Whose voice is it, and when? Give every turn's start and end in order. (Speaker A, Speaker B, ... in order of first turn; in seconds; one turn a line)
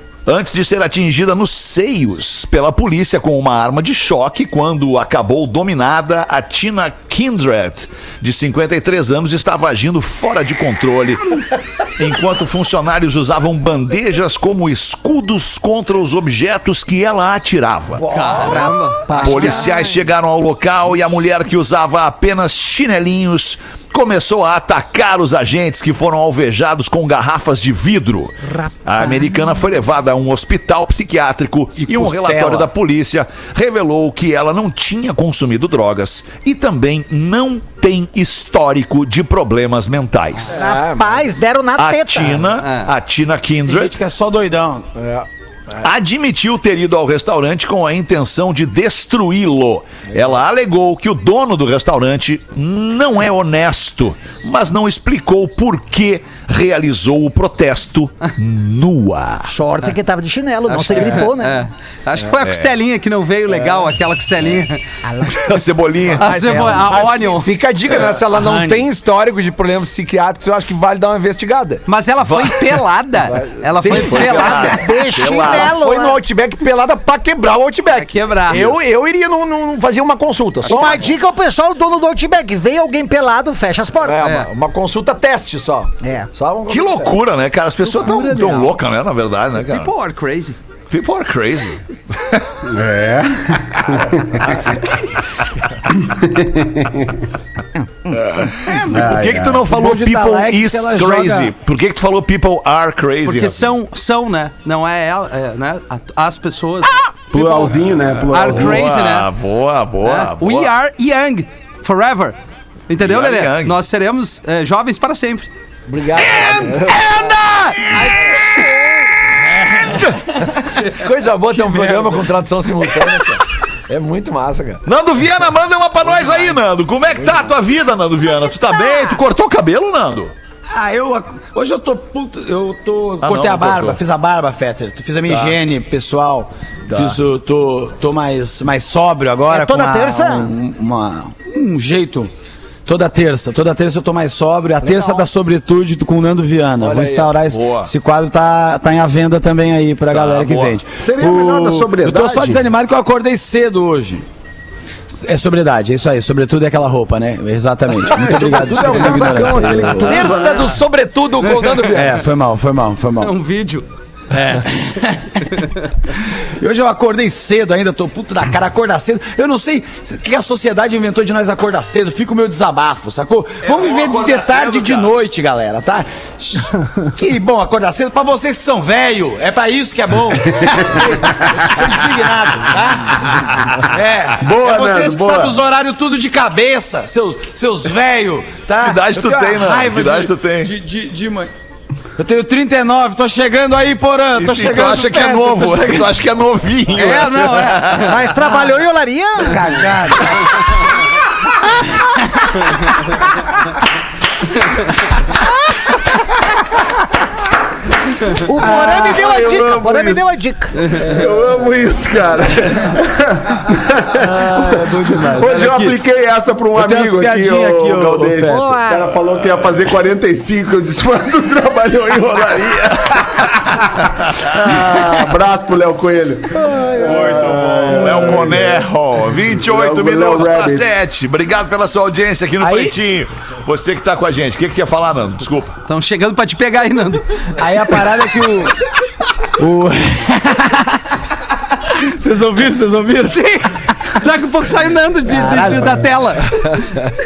Speaker A: 0.3-11.4
Speaker A: 12.0-18.1
Speaker B: 18.0-18.6
Speaker C: 18.1-19.2
Speaker D: 18.4-20.0
Speaker A: 19.1-40.6
Speaker D: 28.6-29.5
Speaker E: 31.8-32.7
Speaker B: 40.5-41.3
Speaker D: 40.5-42.6
Speaker A: 41.8-44.0
Speaker C: 42.6-42.9
Speaker E: 43.7-44.9
Speaker B: 45.0-45.9
Speaker A: 45.8-59.5
Speaker D: 59.5-61.6
Speaker C: 60.7-64.8
Speaker A: 62.4-62.7
Speaker D: 65.0-65.6
Speaker A: 65.3-66.6
Speaker C: 66.2-67.5
Speaker B: 66.2-71.8
Speaker E: 68.3-68.9
Speaker C: 71.9-74.8
Speaker A: 72.3-72.6
Speaker B: 73.3-74.7
Speaker A: 73.9-75.8
Speaker D: 74.5-76.2
Speaker B: 75.3-81.1
Speaker C: 77.9-78.7
Speaker D: 80.6-84.2
Speaker B: 84.0-87.2
Speaker C: 84.2-84.5
Speaker D: 86.0-86.3
Speaker A: 86.7-89.9
Speaker D: 88.0-88.7
Speaker C: 89.7-90.6
Speaker A: 90.9-92.5
Speaker F: 92.7-94.6
Speaker F: 96.0-97.1
Speaker A: 98.2-103.7
Speaker C: 98.6-99.2
Speaker F: 98.9-99.7
Speaker E: 99.7-101.5
Speaker C: 103.2-107.7
Speaker F: 107.3-108.9
Speaker A: 108.1-110.7
Speaker C: 108.3-109.3
Speaker C: 110.0-112.4
Speaker C: 112.9-115.5
Speaker A: 113.0-113.8
Speaker B: 115.9-117.4
Speaker C: 116.2-118.0
Speaker D: 117.9-119.2
Speaker B: 120.7-124.8
Speaker E: 121.5-122.2
Speaker A: 124.9-130.3
Speaker E: 130.7-142.3
Speaker A: 133.2-134.0
Speaker A: 135.3-135.6
Speaker A: 136.9-137.2
Speaker D: 139.5-140.5
Speaker E: 142.9-154.2
Speaker D: 144.8-145.2
Speaker B: 146.8-147.3
Speaker A: 147.5-147.9
Speaker A: 150.1-150.8
Speaker F: 151.0-152.6
Speaker E: 155.1-160.4
Speaker B: 158.2-162.2
Speaker F: 158.3-160.7
Speaker C: 161.4-161.8
Speaker E: 161.9-163.3
Speaker C: 163.2-163.9
Speaker E: 164.3-165.5
Speaker E: 166.6-191.5
Speaker A: 173.6-175.1
Speaker A: 183.3-183.8
Speaker F: 184.4-185.6
Speaker A: 188.8-190.7
Speaker E: 192.2-196.2
Speaker A: 194.3-198.2
Speaker C: 196.9-198.3
Speaker D: 198.0-199.9
Speaker E: 199.4-200.5
Speaker D: 208.3-210.9
Speaker F: 208.6-210.2
Speaker F: 210.9-223.8
Speaker E: 214.1-216.0
Speaker E: 216.8-218.8
Speaker D: 218.4-219.1
Speaker A: 222.5-223.6
Speaker A: 224.4-225.2
Speaker F: 224.5-228.8
Speaker A: 227.0-235.8
Speaker F: 229.6-230.9
Speaker E: 232.6-233.0
Speaker C: 235.9-237.6
Speaker E: 237.6-238.8
Speaker E: 239.6-241.1
Speaker E: 241.9-243.6
Speaker C: 244.1-247.1
Speaker E: 245.3-246.1